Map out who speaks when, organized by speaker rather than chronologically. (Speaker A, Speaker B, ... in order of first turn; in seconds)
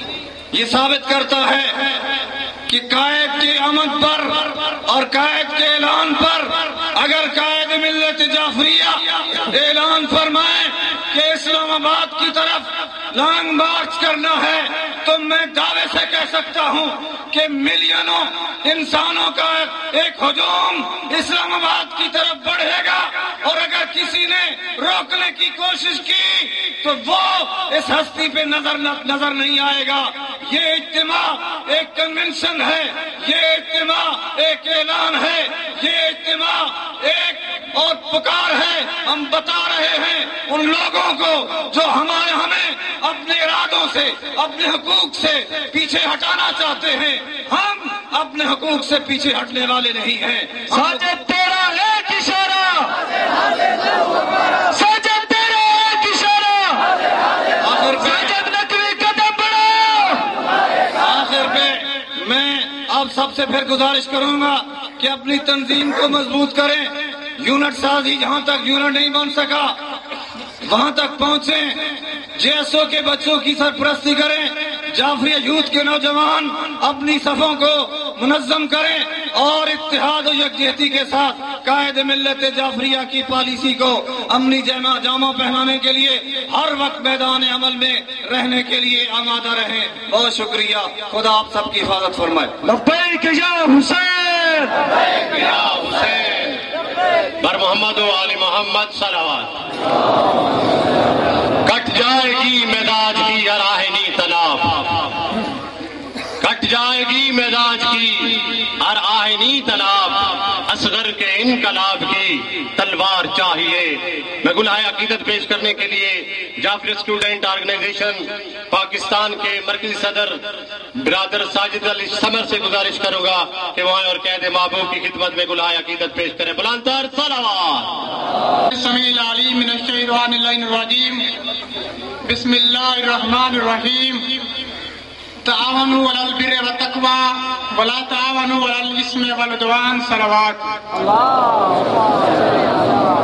Speaker A: 0.5-51.1, 57.6-58.4, 61.0-69.8, 70.7-92.5
Speaker B: 50.7-52.9, 54.7-56.9, 57.9-60.3, 92.6-94.8
Speaker C: 95.3-96.5, 97.4-99.5, 101.7-105.1, 106.4-120.4, 121.0-128.0
Speaker D: 128.7-131.3, 132.2-134.4, 135.4-140.8